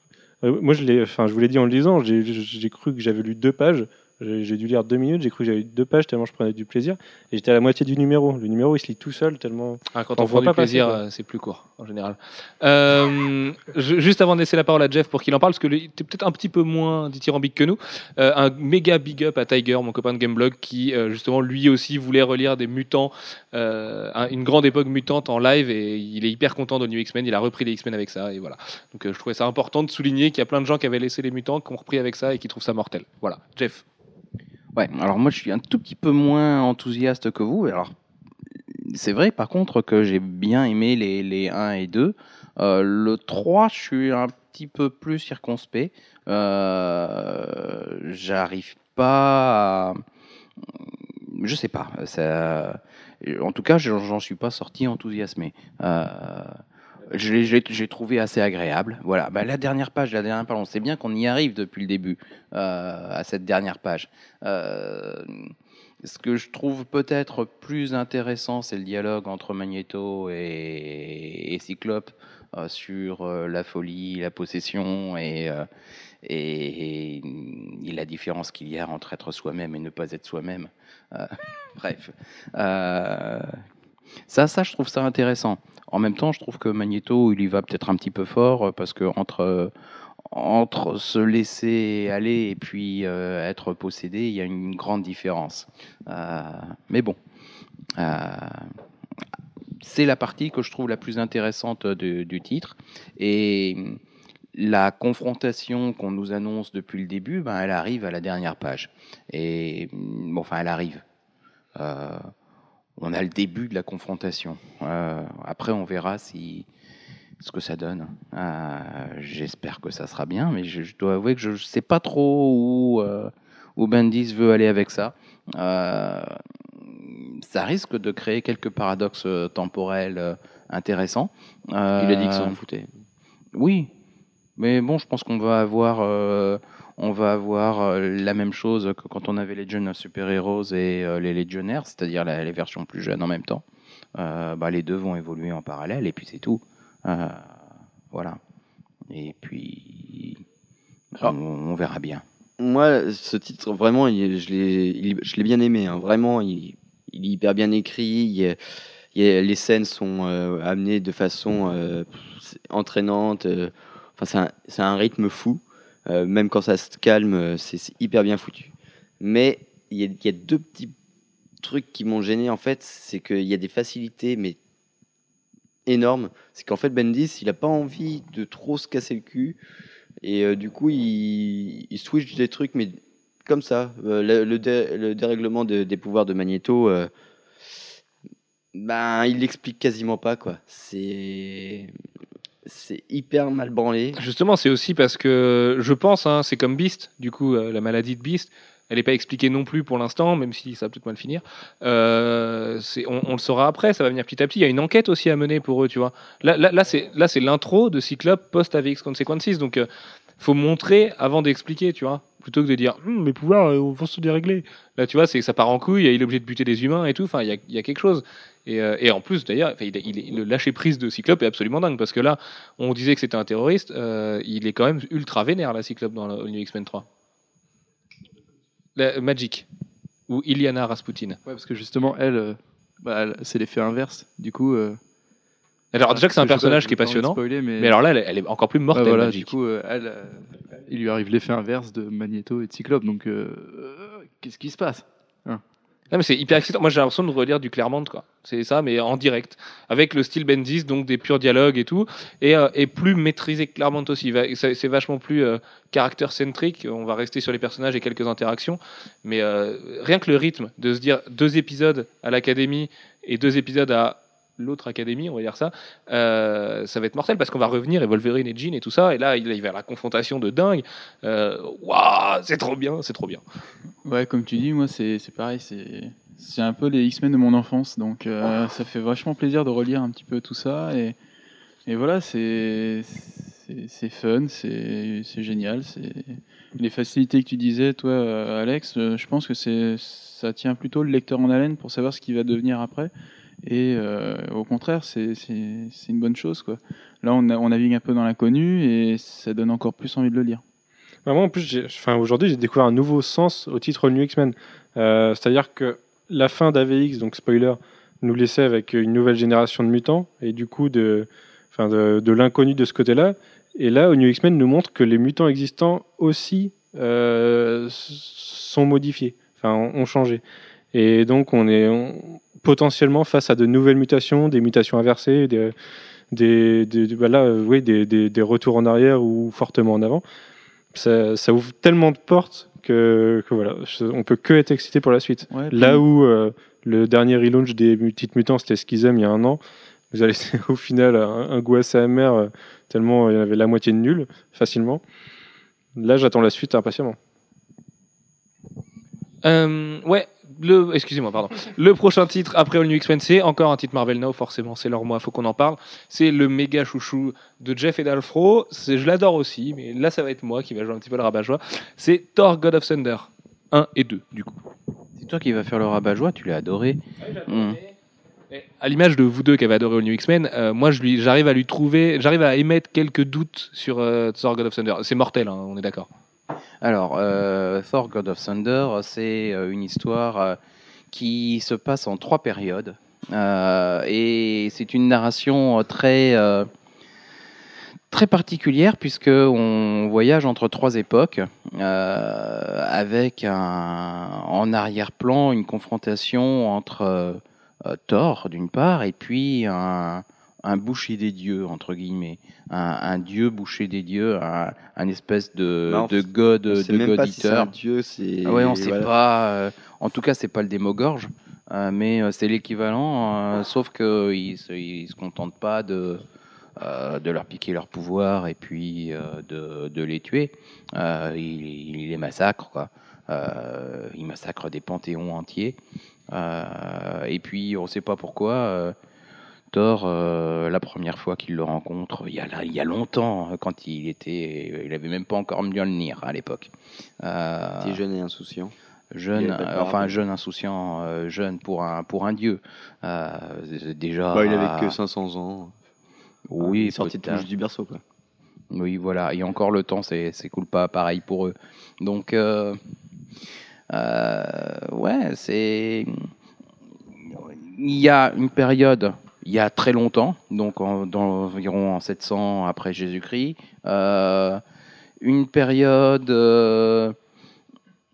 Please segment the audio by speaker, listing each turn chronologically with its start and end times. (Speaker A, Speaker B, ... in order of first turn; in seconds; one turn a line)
Speaker A: 0.4-11.0
Speaker B: 9.9-33.8
Speaker C: 34.7-37.9
Speaker C: 38.7-50.0
Speaker C: 50.7-56.6
Speaker C: 57.1-75.7
Speaker C: 76.2-83.6
Speaker C: 84.3-89.7
Speaker C: 90.3-97.2
Speaker C: 98.0-98.7
Speaker C: 99.8-104.0
Speaker C: 104.5-111.0
Speaker C: 111.7-112.3
Speaker C: 113.0-116.7
Speaker C: 117.4-132.6
Speaker D: 132.0-132.9
Speaker C: 133.5-133.9
Speaker C: 134.6-143.6
Speaker C: 144.2-147.4
Speaker C: 148.1-148.4
Speaker C: 149.1-150.4
Speaker C: 151.1-152.2
Speaker D: 152.6-158.6
Speaker D: 159.1-170.9
Speaker D: 171.6-174.6
Speaker D: 175.8-179.6
Speaker D: 180.2-187.1
Speaker D: 188.7-191.9
Speaker D: 192.6-194.2
Speaker B: 194.2-209.8
Speaker B: 210.4-227.0
Speaker B: 228.9-229.7
Speaker B: 230.3-231.4
Speaker E: 231.4-235.0
Speaker B: 235.9-239.5
Speaker E: 236.0-238.0
Speaker E: 238.9-245.6
Speaker B: 246.1-273.4
Speaker F: 274.0-281.2
Speaker F: 281.9-293.1
Speaker F: 293.6-300.6
Speaker A: 301.2-325.7
Speaker A: 326.3-330.2
Speaker A: 330.9-345.0
Speaker F: 335.5-336.0
Speaker A: 345.9-347.2
Speaker B: 349.4-364.6
Speaker C: 365.2-367.8
Speaker B: 367.2-367.8
Speaker B: 368.5-376.1
Speaker C: 376.8-380.6
Speaker C: 381.1-386.7
Speaker C: 388.1-407.7
Speaker D: 405.9-409.1
Speaker C: 408.4-416.2
Speaker C: 416.8-425.8
Speaker C: 426.3-428.9
Speaker C: 429.7-436.7
Speaker C: 437.2-438.0
Speaker D: 437.8-438.7
Speaker C: 439.1-444.9
Speaker D: 439.4-440.2
Speaker D: 444.3-445.7
Speaker C: 446.5-447.4
Speaker D: 446.6-448.0
Speaker C: 448.7-452.8
Speaker C: 453.9-456.3
Speaker C: 457.2-464.6
Speaker C: 465.2-467.1